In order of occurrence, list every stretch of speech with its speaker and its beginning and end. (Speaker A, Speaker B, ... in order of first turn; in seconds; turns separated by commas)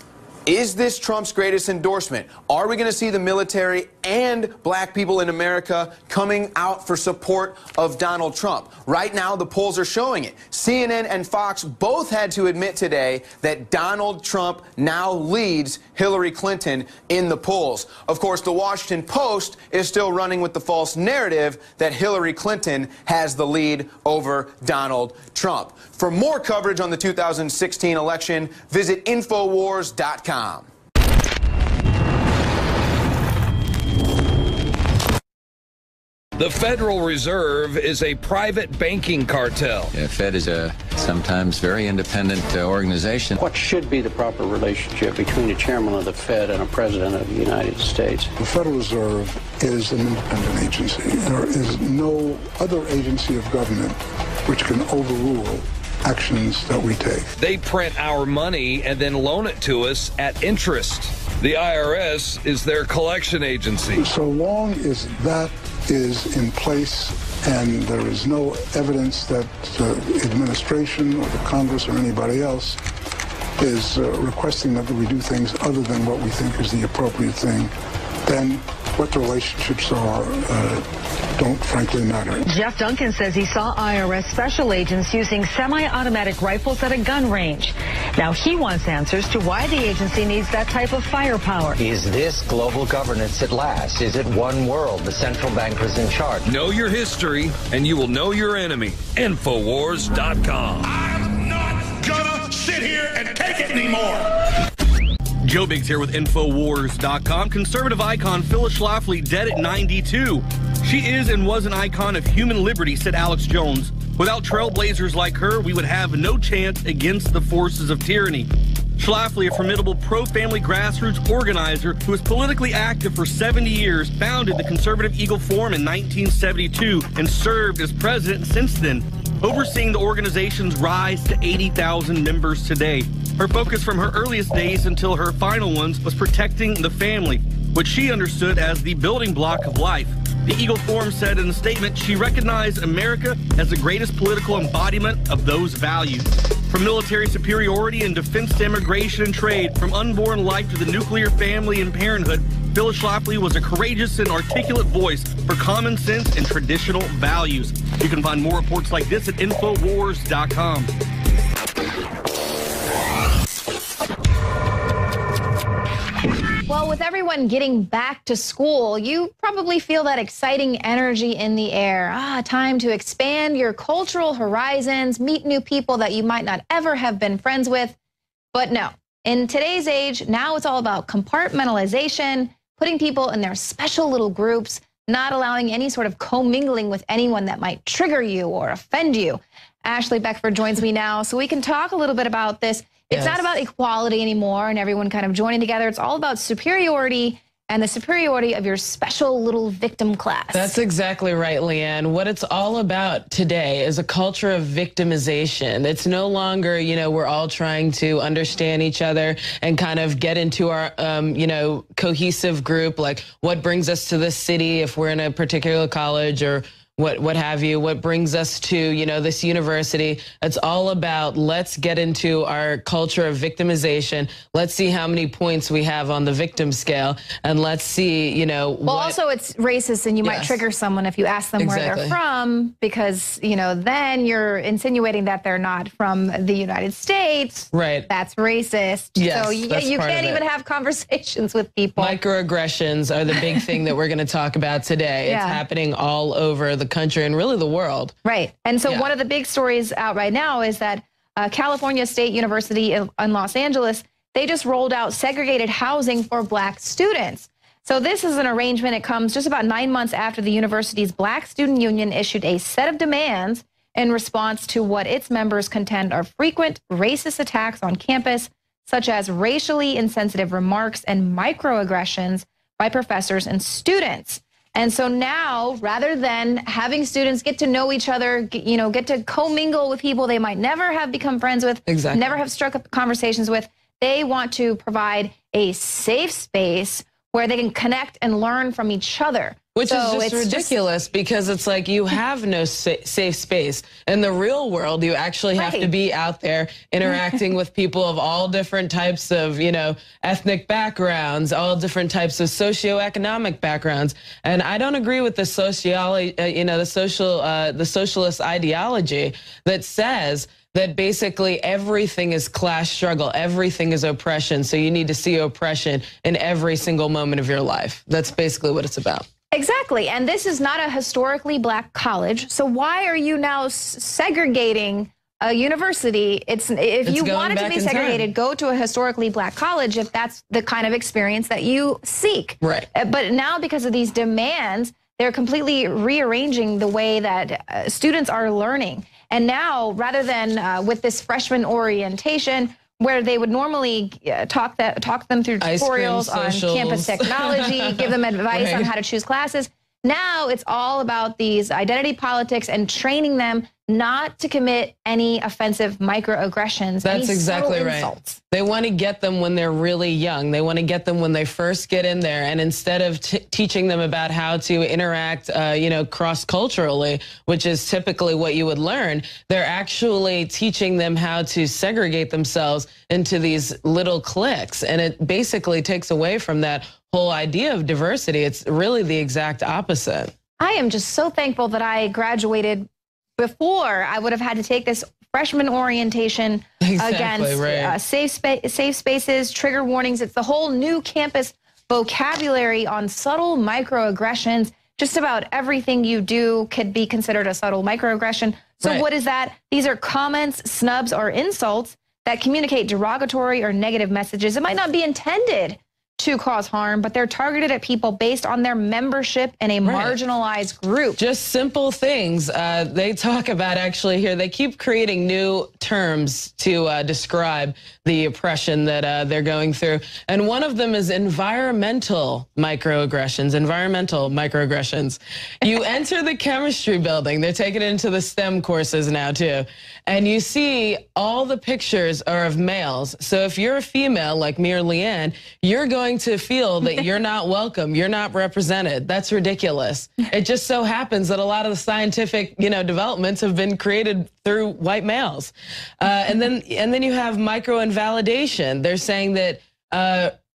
Speaker A: 0.5-30.7, Speaker B: 36.4-39.9, Speaker C: 39.9-43.3, Speaker D: 43.4-48.3, Speaker E: 48.4-57.3, Speaker B: 57.4-64.0, Speaker E: 64.0-72.8, Speaker E: 73.6-77.7, Speaker E: 78.2-82.5, Speaker F: 82.5-85.6, Speaker F: 87.2-87.6, Speaker F: 88.3-88.8, Speaker F: 90.2-91.7, Speaker G: 91.8-96.5, Speaker B: 96.5-100.9, Speaker H: 100.8-104.3, Speaker I: 105.4-160.9, Speaker J: 166.7-177.9, Speaker J: 178.5-200.7, Speaker K: 193.1-193.4, Speaker K: 200.5-229.2, Speaker J: 228.8-242.2, Speaker K: 230.2-230.6, Speaker K: 231.6-232.2, Speaker K: 237.7-238.1, Speaker K: 239.2-240.4, Speaker K: 242.0-248.2, Speaker J: 243.4-243.8, Speaker J: 245.2-245.6, Speaker J: 248.2-290.8, Speaker K: 281.9-282.3, Speaker K: 289.7-319.2, Speaker J: 295.6-295.9, Speaker J: 319.5-358.4, Speaker K: 327.0-328.3, Speaker K: 332.6-332.9, Speaker K: 345.6-348.9, Speaker K: 357.0-380.3, Speaker J: 380.6-411.2, Speaker K: 386.8-387.9, Speaker K: 409.8-410.2, Speaker K: 411.2-450.3